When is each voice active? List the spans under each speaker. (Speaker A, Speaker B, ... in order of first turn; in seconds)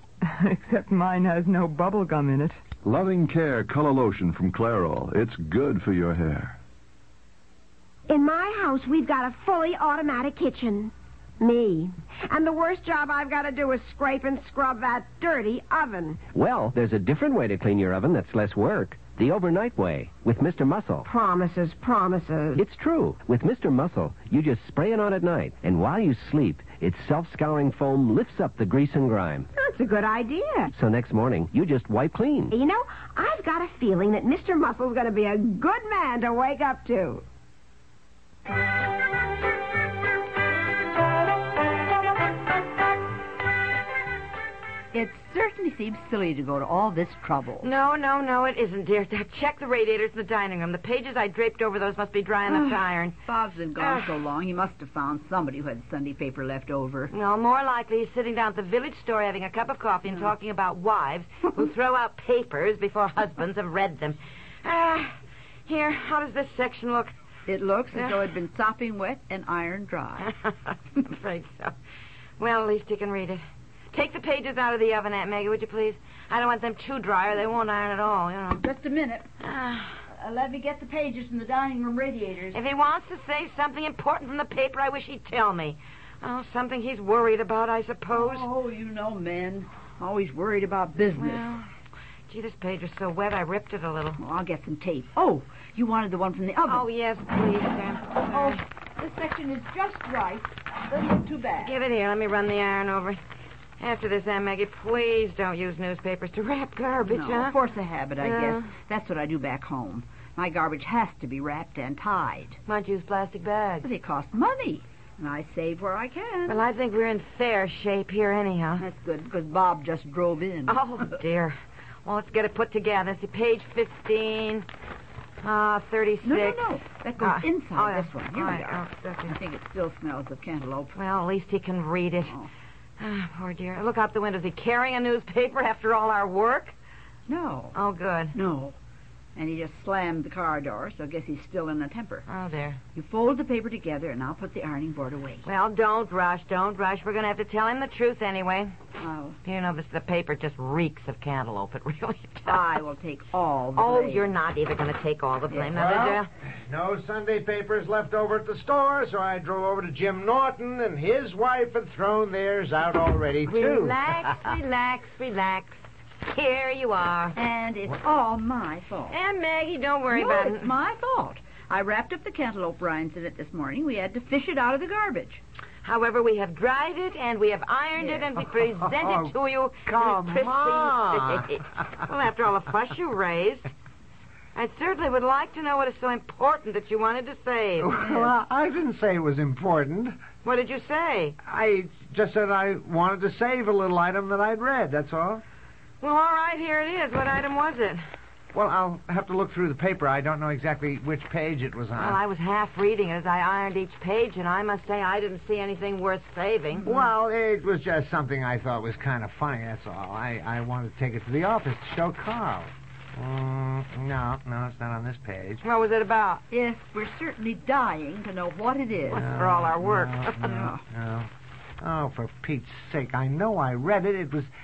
Speaker A: 0.2-2.6
Speaker B: 2.9-6.5
Speaker C: 8.1-16.2, 21.1-22.6, 29.5-30.7, 32.5-37.2
Speaker D: 16.3-21.1, 22.5-29.5, 30.7-32.6
Speaker E: 44.9-47.7, 52.5-57.1, 67.5-70.3, 78.6-79.3, 80.1-82.6, 88.1-91.5, 94.2-96.8, 98.3-101.8, 107.0-112.6, 113.8-116.6, 118.8-121.2, 126.2-130.9, 137.3-137.7, 138.3-138.8, 139.3-142.2, 142.9-145.4, 149.0-149.4, 152.4-154.3, 167.3-169.2, 170.1-175.4, 216.5-219.3, 220.4-220.8
Speaker F: 47.6-53.2, 53.8-54.1, 57.1-65.1, 65.7-67.1, 67.9-68.2, 70.2-71.7, 72.4-73.4, 73.9-78.6, 79.4-80.0, 82.5-88.5, 91.1-91.7, 92.3-94.2, 96.7-98.6, 101.6-103.2, 103.8-107.5, 108.2-108.7, 112.7-113.9, 116.5-118.8, 120.7-124.7, 125.4-129.3, 130.9-132.4, 133.0-136.7, 137.7-138.3, 142.3-142.8, 145.4-148.7, 149.4-152.7, 153.8-156.3, 163.4-167.3, 169.1-170.7, 175.8-183.7, 184.5-188.3, 190.4-191.4, 196.0-198.0, 201.9-207.1, 215.6-216.4, 219.1-220.7
Speaker G: 155.7-164.1, 178.8-179.3, 179.8-181.5, 187.8-190.2, 191.4-195.4, 198.5-202.2, 206.8-215.6, 219.1-224.5